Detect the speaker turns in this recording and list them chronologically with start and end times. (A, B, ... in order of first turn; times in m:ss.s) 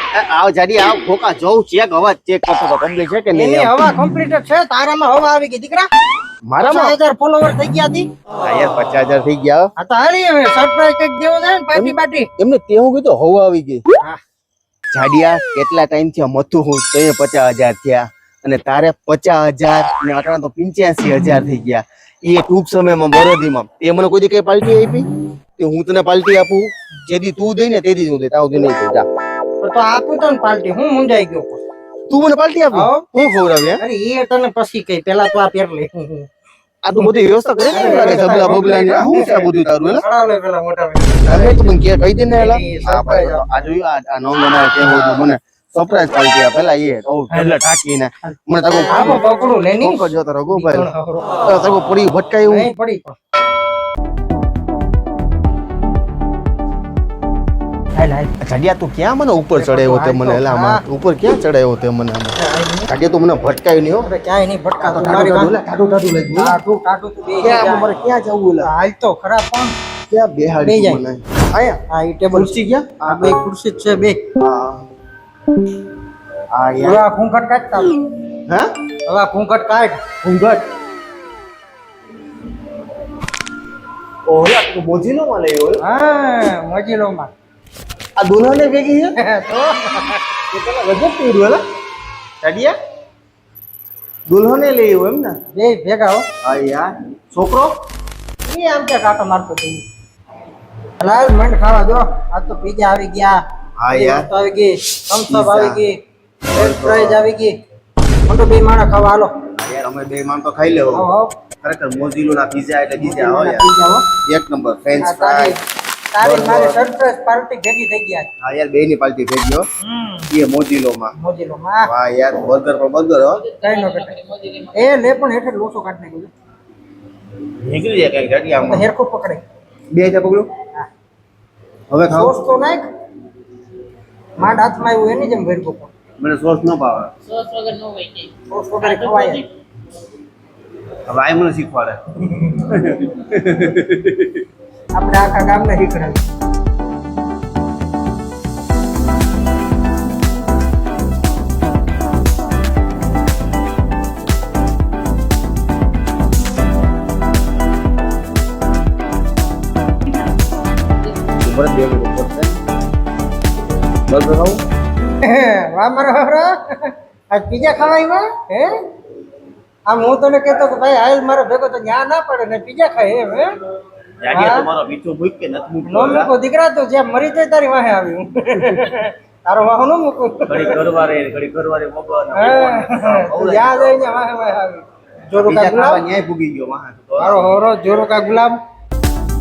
0:00.1-0:03.7 A
0:03.3-0:05.9 B
0:06.5-0:07.0 A
0:06.6-0:08.1 B
0:08.4-0:09.7 A
0:09.8-0:12.3 B
0:11.8-0:13.8 A
0:14.9-0:25.0 A
0:25.6-0:29.0 A
0:29.6-0:31.6 B
0:32.1-0:33.8 A
0:32.7-0:33.1 B
0:33.8-0:36.3 B
0:36.8-0:40.0 A
0:37.7-0:41.7 B
0:41.3-0:49.2 A
0:42.3-0:43.4 B
0:47.3-0:47.7 B
0:48.9-0:51.4 B
0:49.8-0:50.9 A
0:51.4-0:52.7 A
0:52.5-0:53.2 B
0:58.0-0:58.3 B
0:58.4-1:02.4 A
0:59.6-1:00.8 B
1:02.4-1:02.9 B
1:02.9-1:04.1 A
1:04.0-1:05.6 B
1:04.8-1:06.6 A
1:06.4-1:07.9 B
1:07.4-1:08.7 A
1:08.6-1:09.7 B
1:10.1-1:11.8 A
1:10.6-1:11.0 B
1:11.9-1:12.5 B
1:12.3-1:13.4 A
1:13.0-1:14.3 B
1:14.4-1:14.8 A
1:16.5-1:17.0 A
1:16.8-1:18.0 B
1:19.1-1:20.0 B
1:20.2-1:20.7 A
1:24.3-1:25.8 A
1:25.8-1:27.3 B
1:28.2-1:29.2 A
1:29.2-1:30.2 B
1:30.5-1:31.6 A
1:32.4-1:32.8 A
1:34.3-1:35.4 A
1:35.5-1:36.3 B
1:36.4-1:37.8 A
1:38.5-1:39.8 B
1:41.0-1:45.9 B
1:43.8-1:44.3 A
1:45.3-1:45.8 A
1:46.5-1:47.2 A
1:46.5-1:47.5 B
1:48.3-1:49.3 B
1:49.6-1:51.1 A
1:51.0-1:51.4 B
1:51.6-1:55.6 A
1:53.0-1:54.1 B
1:55.0-1:55.6 B
1:56.1-1:58.3 B
1:56.2-1:56.8 A
1:58.4-1:59.7 A
1:59.8-2:00.3 B
2:00.3-2:01.1 A
2:01.2-2:01.9 B
2:01.9-2:03.4 A
2:03.4-2:04.9 C
2:03.6-2:04.2 B
2:04.7-2:06.3 B
2:07.6-2:08.9 A
2:08.6-2:09.4 B
2:09.9-2:10.5 A
2:11.9-2:12.4 A
2:12.1-2:12.8 B
2:14.4-2:15.9 B
2:16.2-2:17.1 A
2:17.3-2:19.4 C
2:18.5-2:19.4 B
2:21.1-2:24.4 A
2:24.9-2:26.2 B
2:41.4-2:42.6 A
2:44.1-2:44.6 A
2:45.2-2:48.8 B
2:49.9-2:53.6 B
2:54.2-2:56.3 A
2:54.3-2:54.7 B
2:55.8-3:00.8 B
3:00.5-3:04.2 A
3:02.3-3:06.0 B
3:05.4-3:07.5 A
3:07.2-3:08.6 B